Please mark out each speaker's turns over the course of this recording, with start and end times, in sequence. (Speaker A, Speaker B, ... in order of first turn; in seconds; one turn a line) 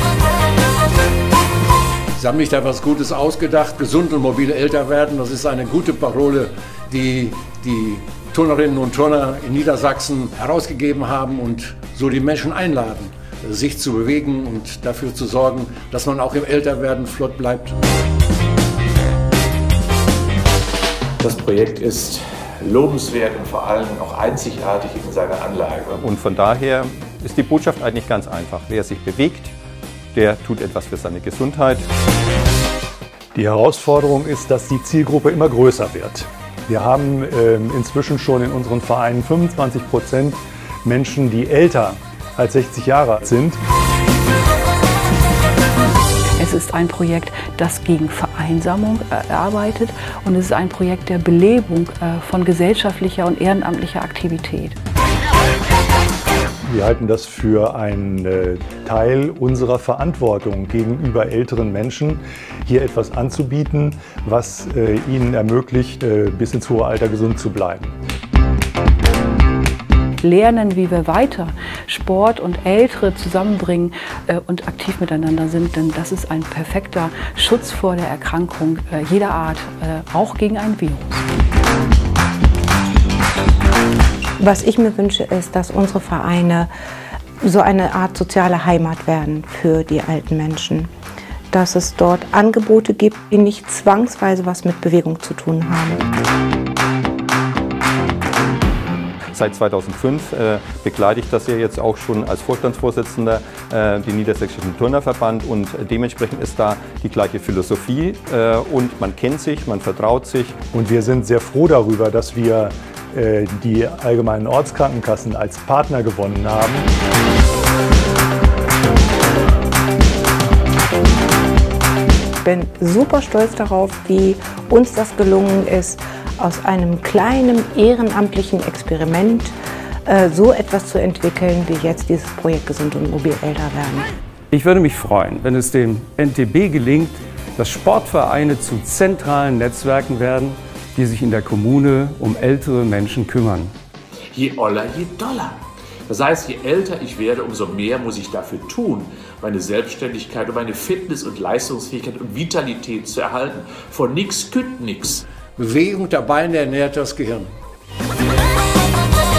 Speaker A: 2.2-17.8
Speaker B: 21.2-26.0
Speaker C: 26.0-29.5
Speaker C: 30.1-31.9
Speaker D: 33.3-43.6
Speaker E: 46.4-54.8
Speaker D: 56.6-67.9
Speaker E: 70.2-81.2
Speaker F: 84.4-86.7
Speaker F: 87.4-90.9
Speaker F: 91.5-96.0
Speaker C: 99.3-110.6
Speaker D: 110.7-116.9
Speaker F: 122.4-129.5
Speaker F: 130.1-134.1
Speaker G: 134.5-143.7
Speaker B: 144.3-155.2
Speaker A: 155.6-157.5